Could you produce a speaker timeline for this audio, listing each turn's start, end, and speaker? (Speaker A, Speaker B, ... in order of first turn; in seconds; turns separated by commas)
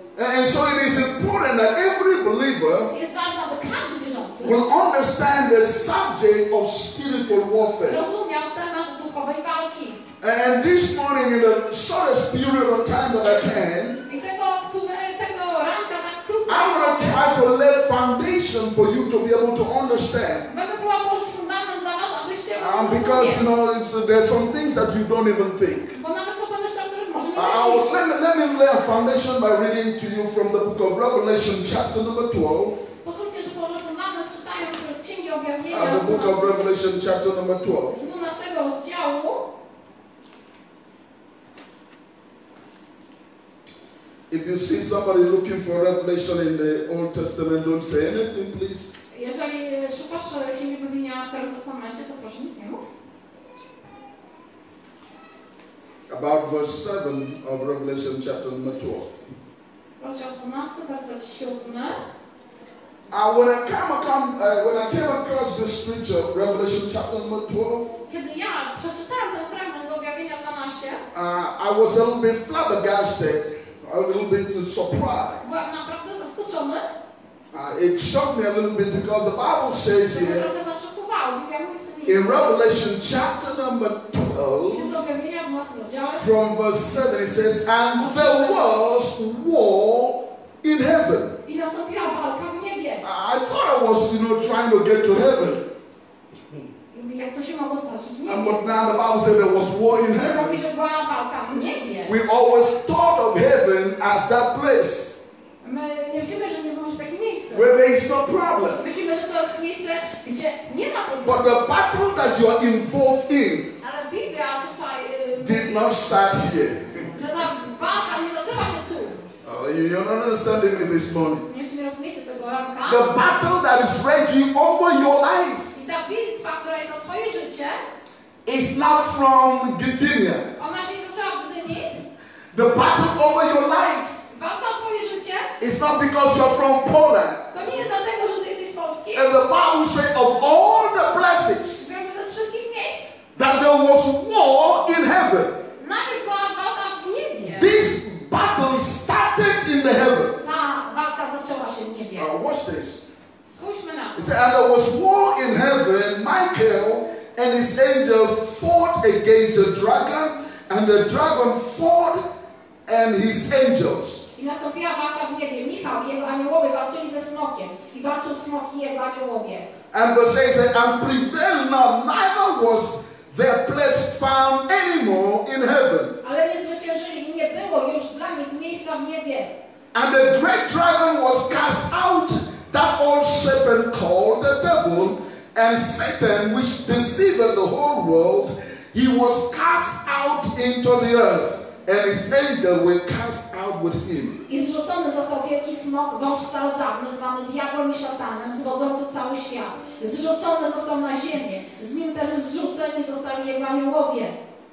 Speaker A: 0.2-2.9, Speaker B: 2.9-4.6, Speaker A: 4.4-8.0, Speaker B: 7.9-10.0, Speaker A: 10.2-14.0, Speaker B: 14.1-17.3, Speaker A: 16.5-20.5, Speaker B: 20.5-23.5, Speaker A: 22.6-26.0, Speaker B: 25.9-28.0, Speaker A: 27.3-32.9, Speaker B: 33.0-36.5, Speaker A: 35.7-38.0, Speaker B: 37.9-39.5, Speaker A: 44.3-48.9, Speaker B: 49.1-52.9, Speaker A: 56.1-59.2, Speaker B: 60.0-62.0, Speaker A: 63.1-68.0, Speaker B: 68.1-71.0, Speaker A: 71.1-75.7, Speaker B: 75.4-76.9, Speaker A: 77.5-80.5, Speaker B: 80.1-82.5, Speaker A: 82.1-85.0, Speaker B: 84.7-86.3, Speaker A: 86.2-91.4, Speaker B: 88.0-88.7, Speaker B: 91.5-93.0, Speaker A: 93.0-95.7, Speaker B: 96.9-98.6, Speaker A: 98.3-100.6, Speaker B: 100.2-102.2, Speaker A: 102.0-105.2, Speaker B: 105.6-107.7, Speaker A: 107.5-108.8, Speaker B: 108.8-111.5, Speaker A: 111.2-113.7, Speaker B: 113.8-116.0, Speaker A: 115.4-117.1, Speaker B: 117.2-119.2, Speaker A: 119.4-121.5, Speaker B: 121.5-123.1, Speaker A: 122.8-125.7, Speaker B: 125.7-127.8, Speaker A: 128.5-130.5, Speaker B: 130.6-132.0, Speaker A: 132.5-134.2, Speaker B: 134.3-135.5, Speaker A: 135.6-137.4, Speaker B: 137.5-139.4, Speaker A: 139.1-141.9, Speaker B: 141.8-143.2, Speaker A: 143.4-145.6, Speaker B: 145.8-147.7, Speaker A: 147.4-150.4, Speaker B: 150.4-152.3, Speaker A: 152.2-153.0, Speaker B: 153.4-154.3, Speaker A: 154.2-162.2, Speaker A: 162.9-164.2, Speaker B: 164.3-169.7, Speaker A: 169.9-176.2, Speaker B: 176.2-179.5, Speaker A: 179.9-194.4, Speaker B: 194.5-204.4